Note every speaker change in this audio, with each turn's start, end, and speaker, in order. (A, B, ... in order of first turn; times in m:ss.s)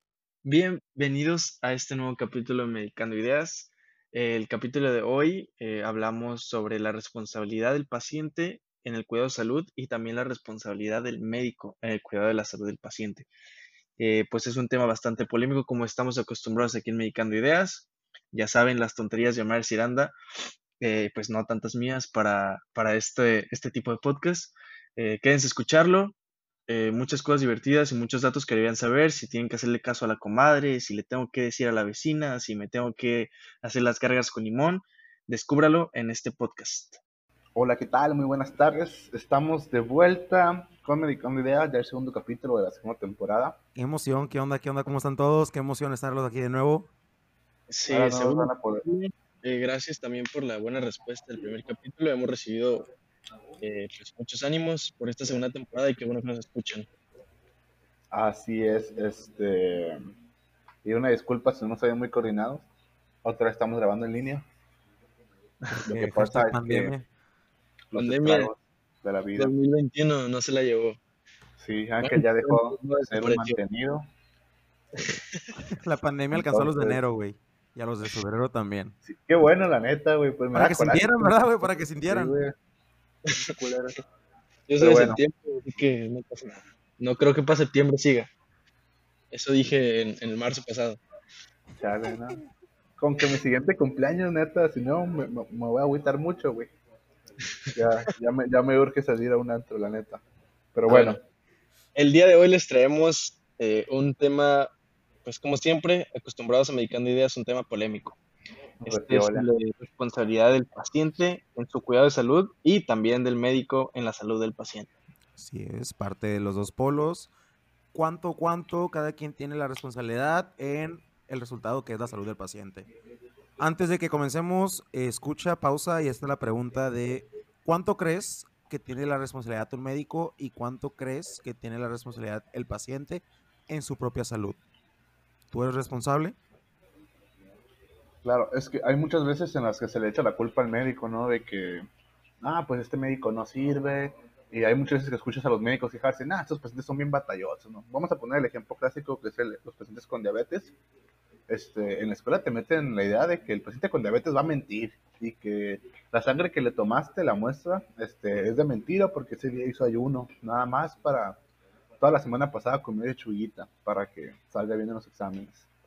0:00.4-0:13.3 A
0:14.0-0:20.1 A
0:20.8-0:26.2 A
0:26.7-0:37.0 A
0:37.6-0:43.6 B
0:43.8-0:46.9 C
0:47.7-0:52.9 A
0:47.9-0:48.8 B
0:53.6-0:56.9 A
0:58.1-1:00.0 B
1:00.8-1:02.7 B
1:03.2-1:04.5 B
1:05.7-1:07.1 C
1:05.9-1:07.0 B
1:07.9-1:09.5 B
1:08.0-1:08.5 A
1:09.4-1:11.0 A
1:11.6-1:14.0 B
1:12.0-1:13.6 A
1:15.0-1:15.5 A
1:15.7-1:19.0 C
1:16.3-1:17.0 B
1:19.1-1:22.6 B
1:20.5-1:22.4 C
1:23.4-1:24.0 B
1:24.7-1:28.3 A
1:24.8-1:25.2 B
1:29.3-1:31.0 A
1:31.8-1:32.4 B
1:33.0-1:36.7 B
1:37.7-1:40.2 B
1:40.7-1:41.2 B
1:40.9-1:41.2 A
1:42.0-1:44.7 A
1:45.2-1:48.2 A
1:48.8-1:49.5 B
1:48.8-1:54.9 A
1:55.4-1:57.3 C
1:57.9-2:02.9 C
2:03.6-2:14.6 C
2:15.5-2:16.4 C
2:18.2-2:21.9 B
2:22.4-2:30.8 B
2:31.5-2:41.4 B
2:42.0-2:45.7 B